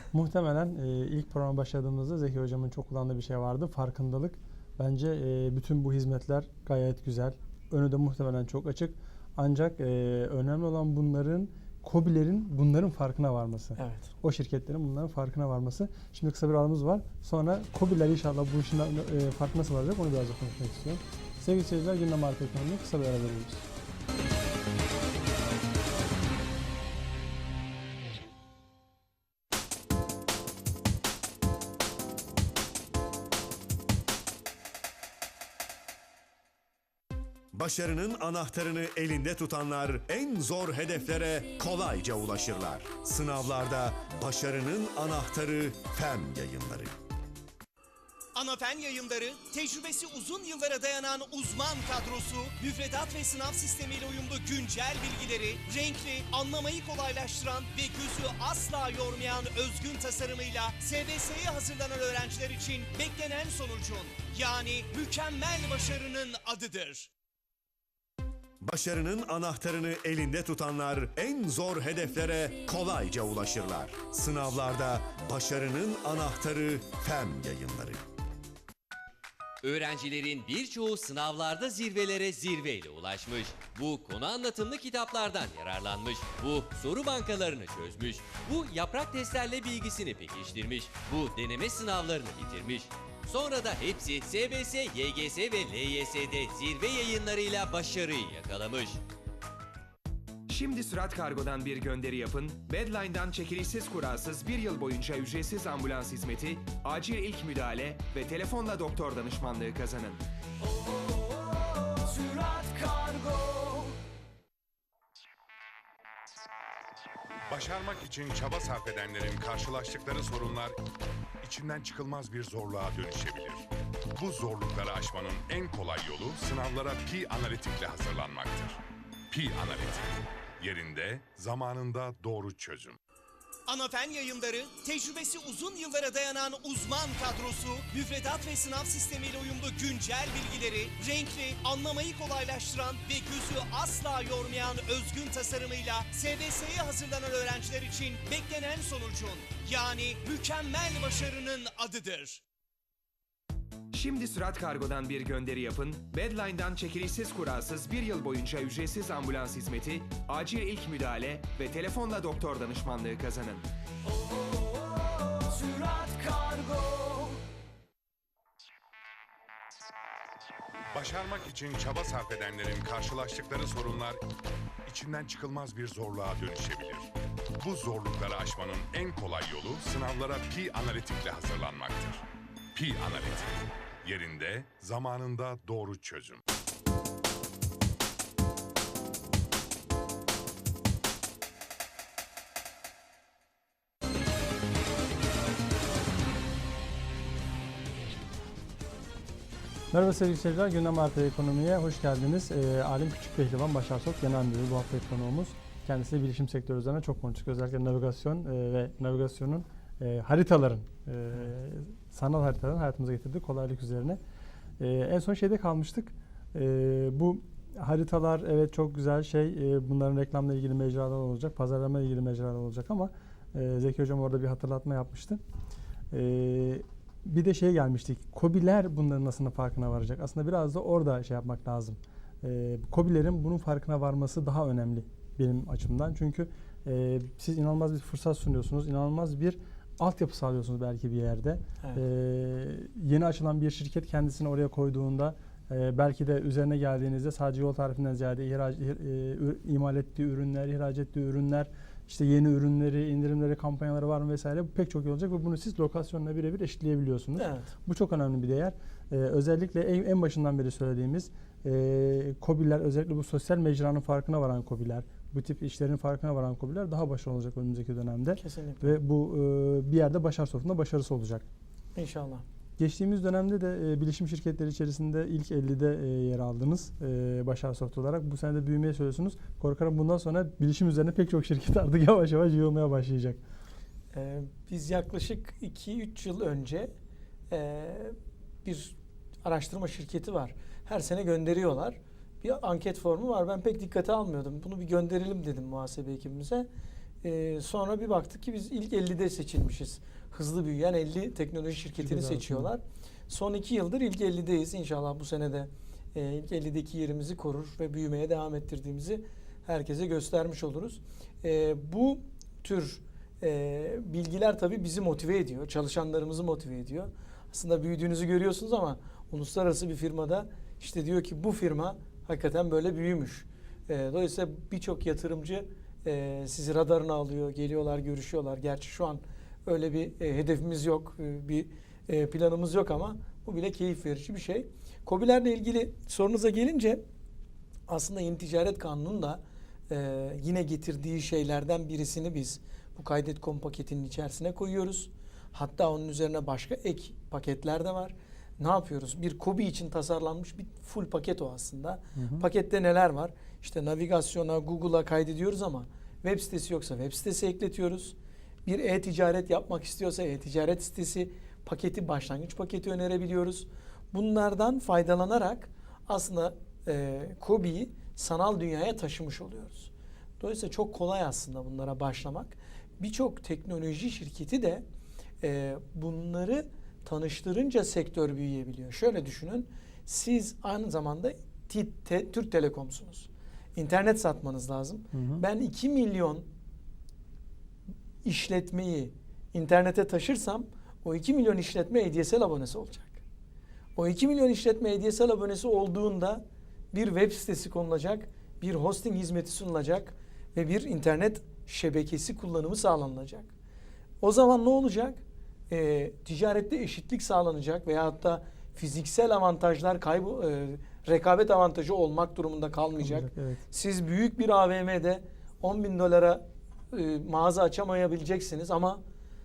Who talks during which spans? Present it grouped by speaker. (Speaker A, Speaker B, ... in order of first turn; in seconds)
Speaker A: 0.1-23.7, 199.9-214.2, 214.8-225.4, 226.1-271.4, 272.8-283.4, 302.0-302.7, 352.1-352.4, 385.1-385.4, 413.0-413.6
Speaker B: 13.8-14.1, 112.5-113.7, 257.4-257.7, 268.4-268.9, 271.9-272.4, 284.1-286.9, 287.5-296.7, 297.2-337.0, 337.9-374.8, 375.4-386.4, 388.2-393.2, 393.9-403.5, 404.2-419.0
Speaker C: 37.5-46.9, 68.6-78.0
Speaker D: 48.3-67.1, 133.7-152.4
Speaker E: 79.6-99.0
Speaker F: 100.5-110.2, 153.9-163.7
Speaker G: 117.5-120.8, 121.4-133.0, 170.9-174.2, 174.8-186.4